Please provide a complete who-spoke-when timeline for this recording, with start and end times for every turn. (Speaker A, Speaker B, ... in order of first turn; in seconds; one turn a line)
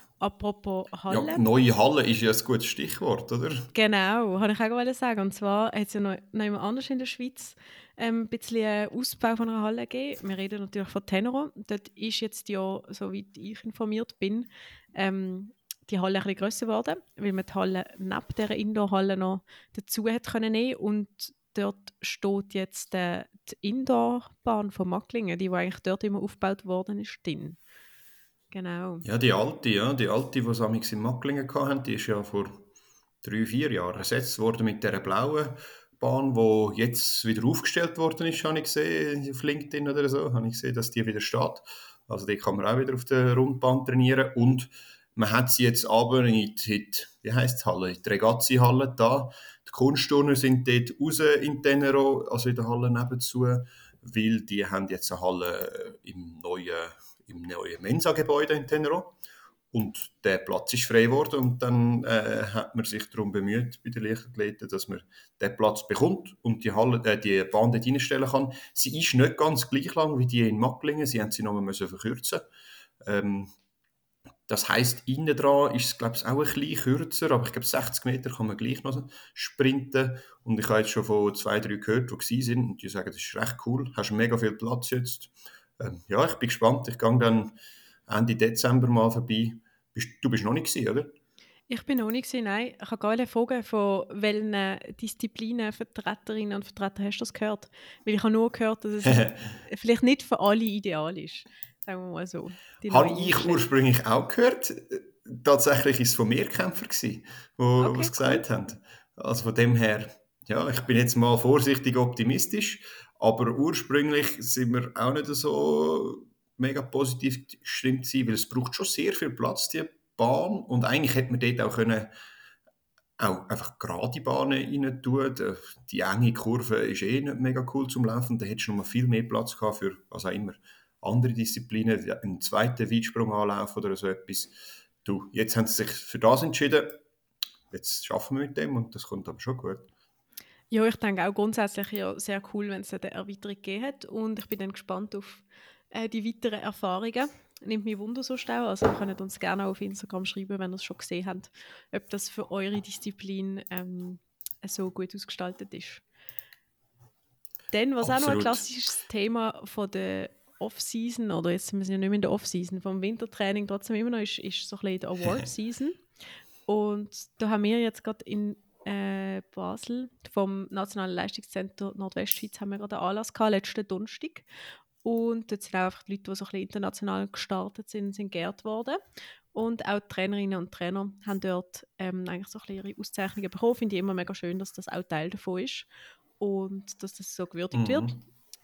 Speaker A: 0.2-1.4
Speaker B: 1.1-3.7
Speaker A: 3.7-27.6
Speaker A: 28.5-29.1
Speaker B: 29.0-32.7
Speaker B: 33.2-59.1
Speaker B: 59.7-72.4
Speaker B: 73.0-73.5
Speaker B: 74.5-87.5
Speaker B: 88.1-91.2
Speaker A: 91.7-103.6
Speaker B: 99.0-99.6
Speaker B: 102.9-122.1
Speaker A: 107.8-108.4
Speaker B: 123.2-137.0
Speaker B: 137.7-139.9
Speaker A: 140.7-156.0
Speaker A: 157.7-166.0
Speaker B: 158.0-158.7
Speaker A: 166.7-174.5
Speaker A: 175.0-179.0
Speaker A: 179.5-185.9
Speaker A: 186.4-188.2
Speaker B: 187.7-188.2